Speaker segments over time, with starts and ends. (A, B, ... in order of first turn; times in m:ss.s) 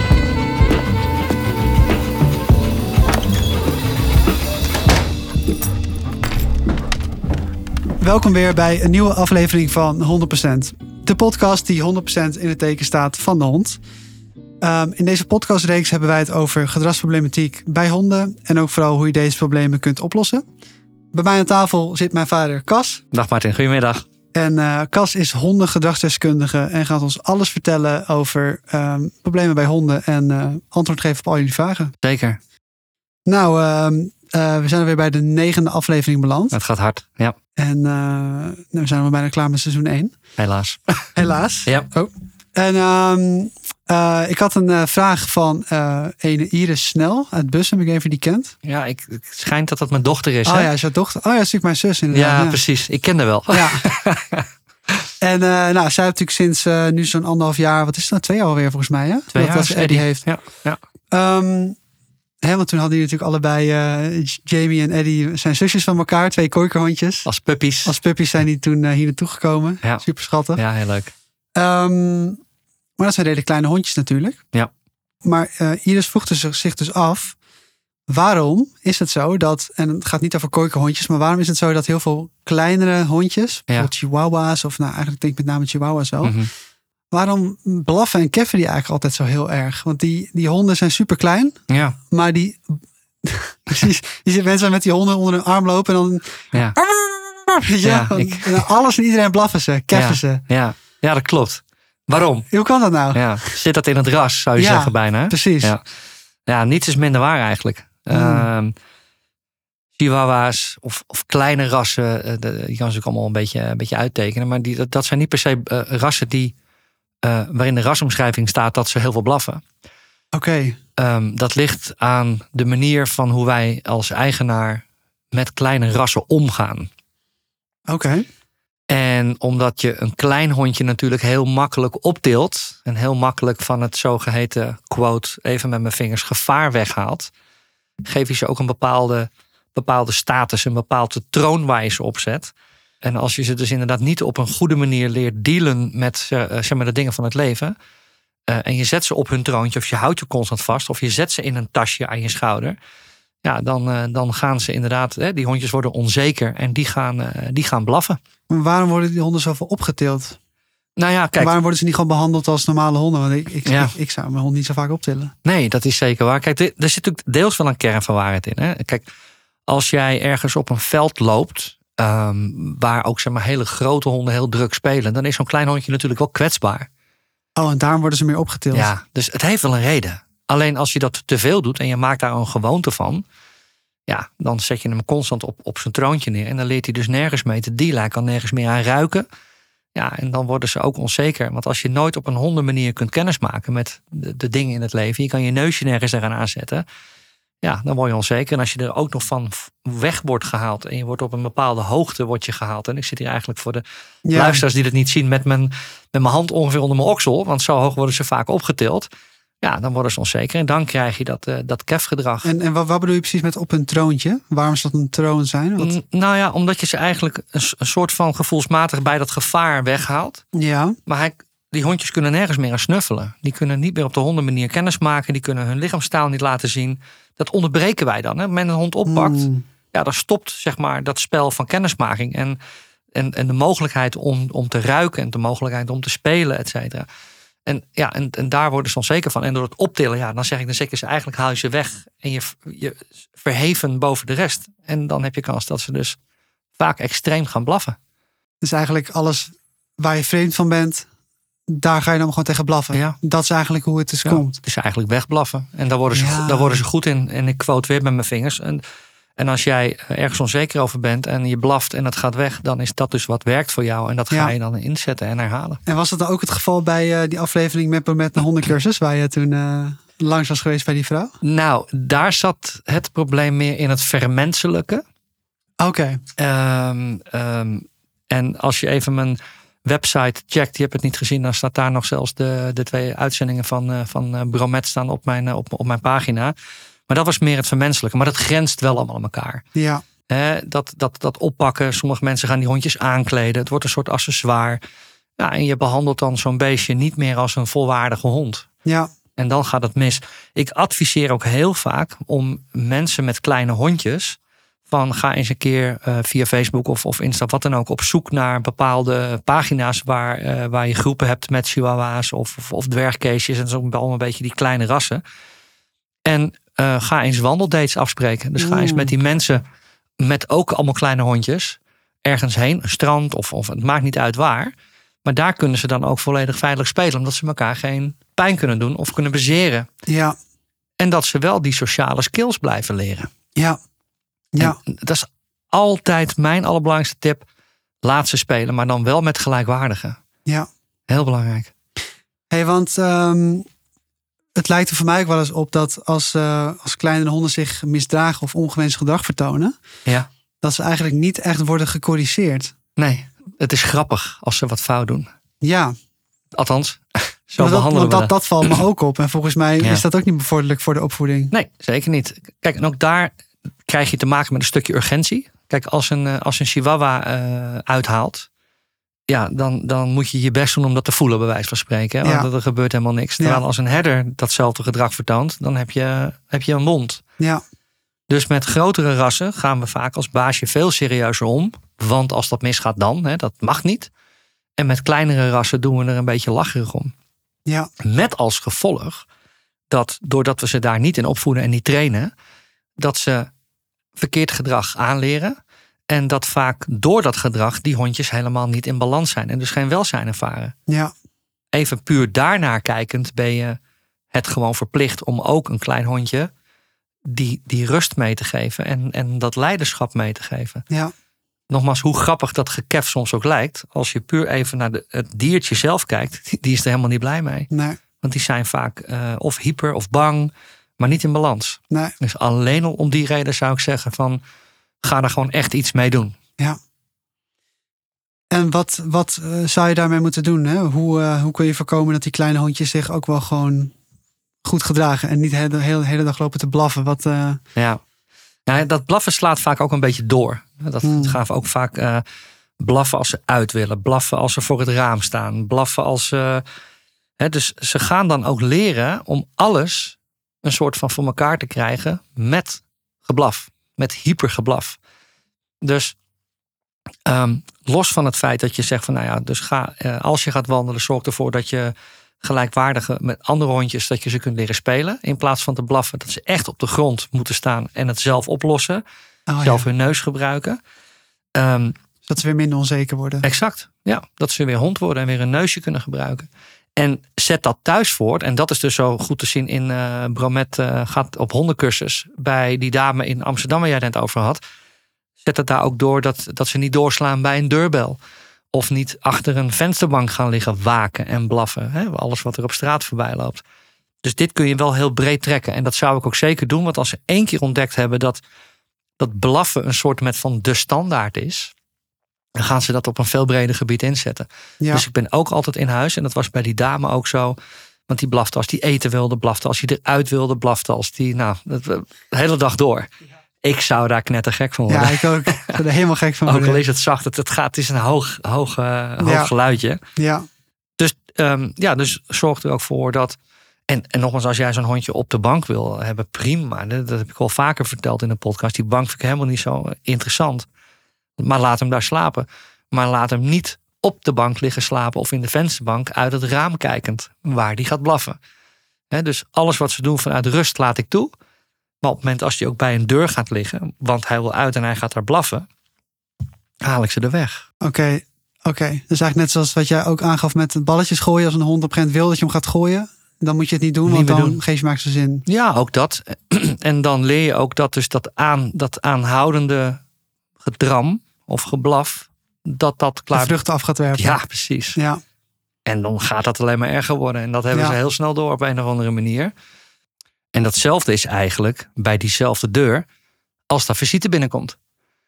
0:08.0-0:13.8 A
0:14.6-0:20.4 A
0:21.1-0:23.0 A
0:23.1-0:24.0 B
0:24.4-0:31.9 A
0:32.0-0:32.4 B
0:33.3-0:36.6 A
0:36.5-0:37.4 B
0:37.6-0:40.1 A
0:40.4-0:41.1 B
0:41.2-0:48.5 A
0:48.6-0:50.7 B
0:50.5-0:52.6 A
0:52.1-0:54.4 B
0:53.5-0:53.8 A
0:55.2-1:00.3 A
0:59.3-1:00.8 B
1:01.1-1:01.8 A
1:02.4-1:07.3 A
1:07.3-1:07.9 B
1:07.8-1:10.6 A
1:10.6-1:11.1 B
1:11.6-1:12.4 A
1:13.0-1:14.4 A
1:15.2-1:17.4 A
1:18.1-1:26.4 A
1:26.2-1:26.5 B
1:27.1-1:31.6 A
1:31.7-1:32.0 B
1:32.1-1:40.4 A
1:37.8-1:38.7 B
1:39.9-1:42.5 B
1:42.5-1:43.5 A
1:43.1-1:45.8 B
1:44.6-1:45.8 A
1:46.5-1:48.8 B
1:48.1-1:48.5 A
1:50.0-1:56.5 B
1:57.2-1:59.6 B
2:00.3-2:00.8 A
2:01.0-2:06.9 B
2:07.9-2:08.3 A
2:08.9-2:17.3 B
2:18.0-2:27.8 B
2:28.5-2:32.8 B
2:33.4-2:38.2 B
2:38.5-2:40.4 A
2:41.0-2:41.6 B
2:41.4-2:45.3 A
2:43.7-2:43.9 B
2:45.4-2:49.1 B
2:49.7-2:56.9 B
2:57.6-2:58.9 A
2:58.7-3:03.2 B
3:04.1-3:09.3 B
3:10.0-3:16.8 B
3:17.6-3:29.1 B
3:24.3-3:24.6 A
3:29.6-3:32.5 B
3:32.4-3:35.9 A
3:35.8-3:40.4 B
3:40.5-3:41.0 A
3:41.1-3:52.6 B
3:49.1-3:49.6 A
3:53.2-3:57.1 B
3:57.7-4:06.2 B
4:06.8-4:08.0 B
4:08.6-4:11.1 A
4:11.7-4:14.5 A
4:14.2-4:18.8 B
4:16.1-4:16.8 A
4:19.4-4:25.8 B
4:24.3-4:24.6 A
4:25.9-4:31.3 A
4:31.4-4:35.0 B
4:35.8-4:36.2 A
4:36.4-4:46.5 B
4:47.1-4:49.6 B
4:49.8-4:50.0 A
4:50.3-4:54.8 B
4:55.4-4:58.7 B
4:59.4-5:04.4 B
5:04.9-5:15.2 B
5:16.3-5:19.6 B
5:18.6-5:19.1 A
5:20.2-5:24.7 B
5:25.2-5:29.9 B
5:30.1-5:30.4 A
5:31.0-5:33.3 B
5:34.6-5:37.5 B
5:38.0-5:40.2 B
5:41.1-5:41.7 B
5:42.5-5:43.7 A
5:44.6-5:49.7 A
5:50.6-5:52.7 A
5:53.0-5:55.3 B
5:55.6-5:55.9 A
5:56.6-5:58.8 B
5:57.6-6:01.5 A
6:01.5-6:03.3 B
6:03.9-6:08.5 B
6:09.3-6:17.2 B
6:12.2-6:12.5 A
6:18.3-6:24.1 B
6:24.8-6:27.1 B
6:28.0-6:29.2 B
6:29.9-6:32.3 B
6:33.0-6:33.5 B
6:34.2-6:35.6 B
6:36.1-6:40.8 B
6:41.7-6:43.8 B
6:44.3-6:46.5 B
6:47.3-6:50.8 B
6:51.7-6:57.7 B
6:57.7-6:58.0 A
6:58.2-7:04.4 B
7:05.0-7:06.4 B
7:08.5-7:13.9 A
7:14.6-7:17.6 A
7:17.8-7:18.0 B
7:18.7-7:22.2 B
7:21.0-7:21.4 A
7:22.8-7:26.6 B
7:27.4-7:35.0 B
7:35.8-7:36.2 B
7:37.3-7:49.0 B
7:49.5-7:49.9 A
7:49.6-7:50.8 B
7:51.6-7:52.0 B
7:52.3-7:53.5 A
7:53.4-8:04.6 B
8:05.4-8:08.2 B
8:08.7-8:13.6 B
8:14.2-8:18.4 B
8:19.2-8:21.7 B
8:22.6-8:27.6 B
8:28.1-8:33.1 B
8:33.6-8:35.8 B
8:34.9-8:36.8 A
8:36.5-8:40.0 B
8:39.2-8:39.5 A
8:40.2-8:40.4 A
8:41.0-8:43.4 B
8:43.9-8:50.7 B
8:51.4-8:58.4 B
8:59.1-9:01.3 B
9:02.0-9:05.7 B
9:06.8-9:07.6 B
9:07.8-9:15.5 A
9:14.1-9:14.6 B
9:15.5-9:20.0 B
9:20.6-9:23.6 B
9:23.3-9:24.4 A
9:24.2-9:25.0 B
9:25.9-9:29.5 B
9:30.5-9:33.1 B
9:33.7-9:34.8 B